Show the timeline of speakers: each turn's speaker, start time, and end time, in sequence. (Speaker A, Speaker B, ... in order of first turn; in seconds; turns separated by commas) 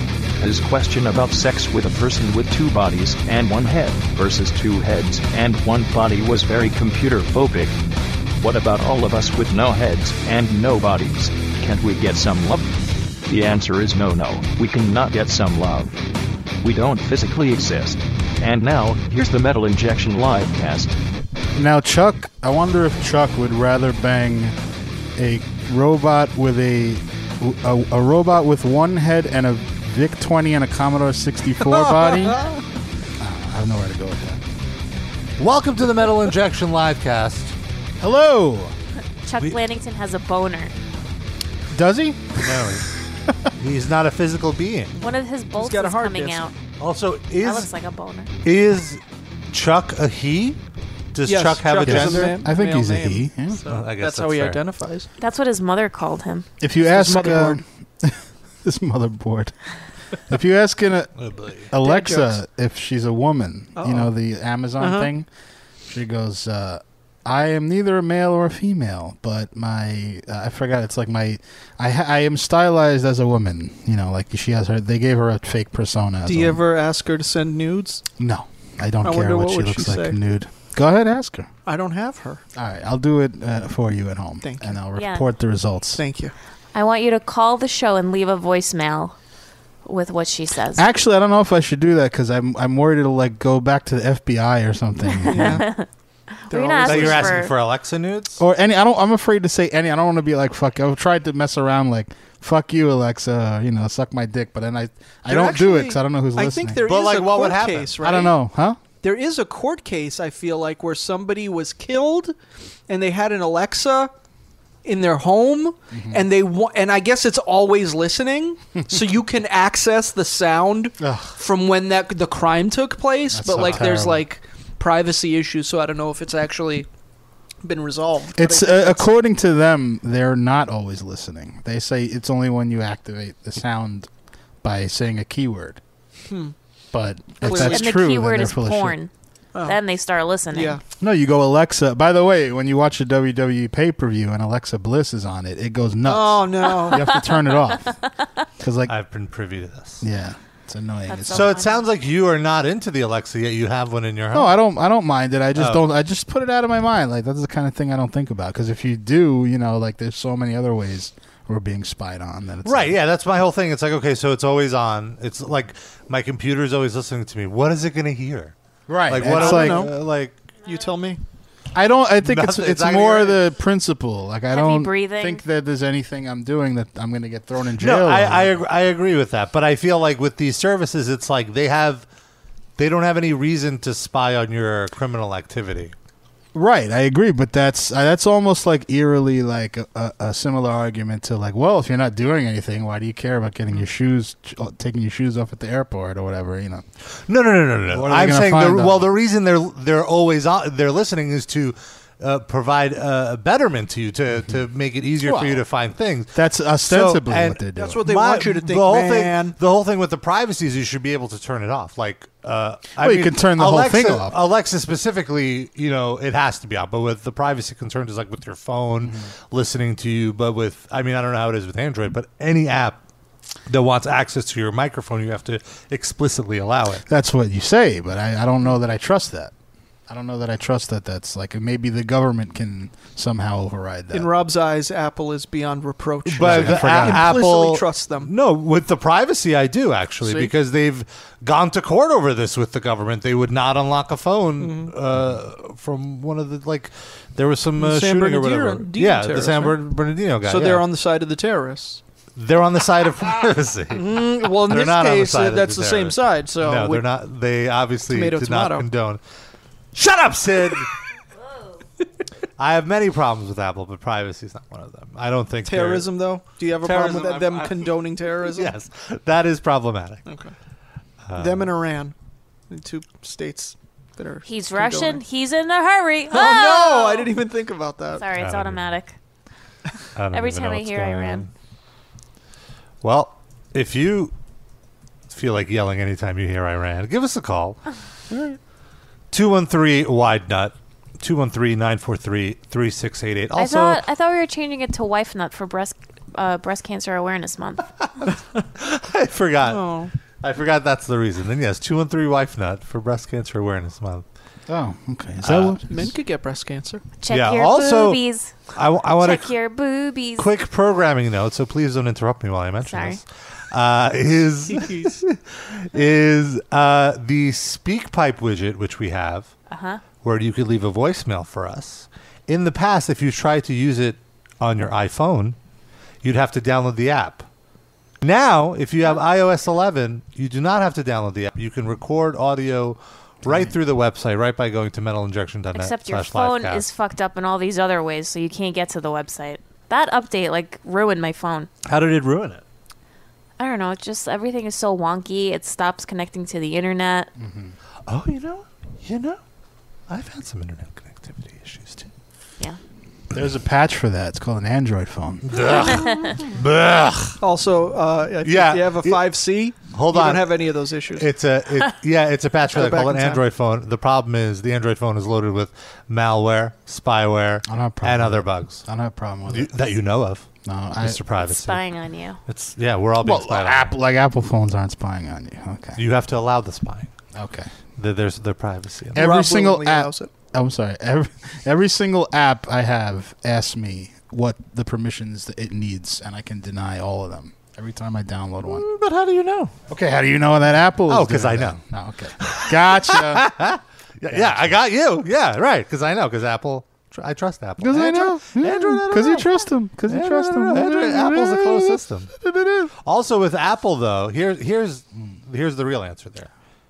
Speaker A: 0.4-7.8, Speaker A: 8.4-12.7, Speaker A: 13.3-15.9, Speaker A: 16.6-21.0, Speaker B: 21.6-24.6, Speaker B: 25.1-32.5, Speaker C: 31.6-32.4, Speaker B: 33.2-34.4, Speaker D: 35.4-37.5, Speaker B: 38.0-38.7, Speaker E: 39.2-40.7, Speaker B: 41.7-42.5, Speaker D: 42.4-42.9, Speaker D: 43.6-45.0, Speaker E: 45.0-46.5, Speaker C: 45.5-46.5, Speaker D: 46.8-47.7, Speaker E: 47.4-48.3, Speaker D: 48.4-50.6, Speaker D: 51.1-52.4, Speaker C: 51.2-55.1, Speaker B: 51.8-53.6, Speaker D: 53.6-54.6, Speaker E: 55.2-56.5, Speaker B: 56.6-59.5, Speaker C: 56.8-57.6, Speaker B: 60.3-61.1, Speaker D: 61.2-61.7, Speaker B: 61.7-65.3, Speaker C: 61.8-62.4, Speaker C: 63.8-64.1, Speaker C: 64.8-65.1, Speaker B: 65.9-76.6, Speaker C: 76.2-78.0, Speaker B: 78.2-81.5, Speaker C: 79.0-80.2, Speaker C: 81.7-82.4, Speaker B: 82.5-86.0, Speaker C: 84.4-84.8, Speaker E: 84.9-85.2, Speaker C: 86.0-86.3, Speaker E: 86.7-89.1, Speaker E: 89.8-90.8, Speaker B: 90.8-95.6, Speaker C: 95.3-95.7, Speaker E: 95.4-95.9, Speaker E: 96.4-97.5, Speaker C: 96.5-97.4, Speaker D: 96.8-98.4, Speaker B: 98.4-106.8, Speaker C: 105.2-108.3, Speaker D: 106.8-107.9, Speaker B: 108.0-108.8, Speaker C: 109.0-112.3, Speaker C: 112.9-114.1, Speaker C: 114.8-126.9, Speaker B: 115.9-116.2, Speaker B: 121.0-121.3, Speaker B: 123.3-124.2, Speaker C: 127.6-129.2, Speaker B: 128.4-134.1, Speaker B: 134.6-135.8, Speaker C: 136.3-136.5, Speaker B: 136.9-139.0, Speaker C: 137.4-138.0, Speaker E: 137.4-139.1, Speaker E: 139.6-140.8, Speaker C: 140.5-140.8, Speaker B: 141.0-148.0, Speaker C: 146.0-147.2, Speaker B: 148.6-148.9, Speaker D: 148.9-150.1, Speaker B: 150.0-151.6, Speaker E: 151.1-151.8, Speaker D: 151.3-154.6, Speaker B: 154.3-162.9, Speaker D: 155.5-155.8, Speaker D: 162.6-168.5, Speaker B: 168.9-169.9, Speaker D: 169.1-170.4, Speaker C: 169.2-169.9, Speaker C: 170.6-171.2, Speaker B: 171.7-178.6, Speaker D: 172.2-173.4, Speaker E: 174.5-175.4, Speaker D: 177.8-182.1, Speaker D: 182.8-185.9, Speaker B: 186.5-196.8, Speaker D: 197.3-223.0, Speaker B: 197.9-199.1, Speaker B: 205.2-205.6, Speaker B: 206.3-208.0, Speaker C: 207.7-209.6, Speaker B: 213.0-214.4, Speaker B: 219.0-219.3, Speaker D: 223.7-227.0, Speaker B: 227.1-229.5, Speaker B: 230.1-234.3, Speaker C: 234.1-238.3, Speaker D: 236.2-250.9, Speaker B: 236.4-237.3, Speaker C: 240.2-240.5, Speaker C: 244.6-244.9, Speaker C: 247.8-249.8, Speaker C: 250.4-252.0, Speaker D: 252.3-259.2, Speaker C: 253.9-257.1, Speaker C: 258.1-258.9, Speaker D: 259.9-260.9, Speaker D: 262.6-266.1, Speaker C: 265.6-268.7, Speaker D: 266.8-267.9, Speaker D: 268.5-270.2, Speaker C: 270.3-270.5, Speaker D: 271.2-271.7, Speaker C: 271.4-272.1, Speaker C: 272.7-275.2, Speaker E: 274.4-277.3, Speaker C: 276.3-278.2, Speaker E: 278.2-279.1, Speaker D: 278.3-279.0, Speaker D: 280.1-281.5, Speaker E: 280.3-281.4, Speaker D: 283.0-284.3, Speaker D: 285.3-287.8, Speaker D: 289.3-294.0, Speaker E: 293.6-297.9, Speaker D: 298.2-299.8, Speaker C: 299.6-300.1, Speaker D: 300.4-304.2, Speaker B: 304.7-306.1, Speaker D: 305.4-305.8, Speaker C: 305.9-307.0, Speaker E: 307.2-308.6, Speaker D: 307.3-308.2, Speaker D: 308.7-309.5, Speaker E: 309.2-310.5, Speaker D: 310.4-319.5, Speaker E: 312.8-313.2, Speaker C: 314.7-315.1, Speaker E: 319.7-320.0, Speaker D: 320.2-325.6, Speaker D: 326.2-327.5, Speaker D: 328.2-336.9, Speaker E: 335.7-341.7, Speaker D: 341.8-342.6, Speaker E: 343.6-347.3, Speaker B: 347.4-347.8, Speaker D: 348.1-349.4, Speaker D: 350.1-352.1, Speaker B: 353.3-355.6, Speaker D: 355.5-357.4, Speaker E: 355.9-356.4, Speaker C: 357.4-361.3, Speaker D: 358.4-359.2, Speaker D: 359.9-360.5, Speaker D: 361.1-368.8, Speaker C: 362.7-363.4, Speaker B: 367.6-369.7, Speaker D: 369.4-370.5, Speaker B: 370.6-371.2, Speaker D: 371.0-371.8, Speaker E: 371.4-372.4, Speaker D: 372.4-374.0, Speaker B: 373.2-376.0, Speaker D: 375.9-377.1, Speaker B: 377.3-377.7, Speaker D: 378.0-379.3, Speaker B: 379.1-388.8, Speaker C: 379.1-380.3, Speaker D: 388.6-389.7, Speaker B: 389.9-393.5, Speaker D: 391.1-391.8, Speaker D: 392.4-399.5, Speaker B: 394.3-394.8, Speaker B: 397.8-402.9, Speaker D: 400.1-402.3, Speaker D: 402.9-406.5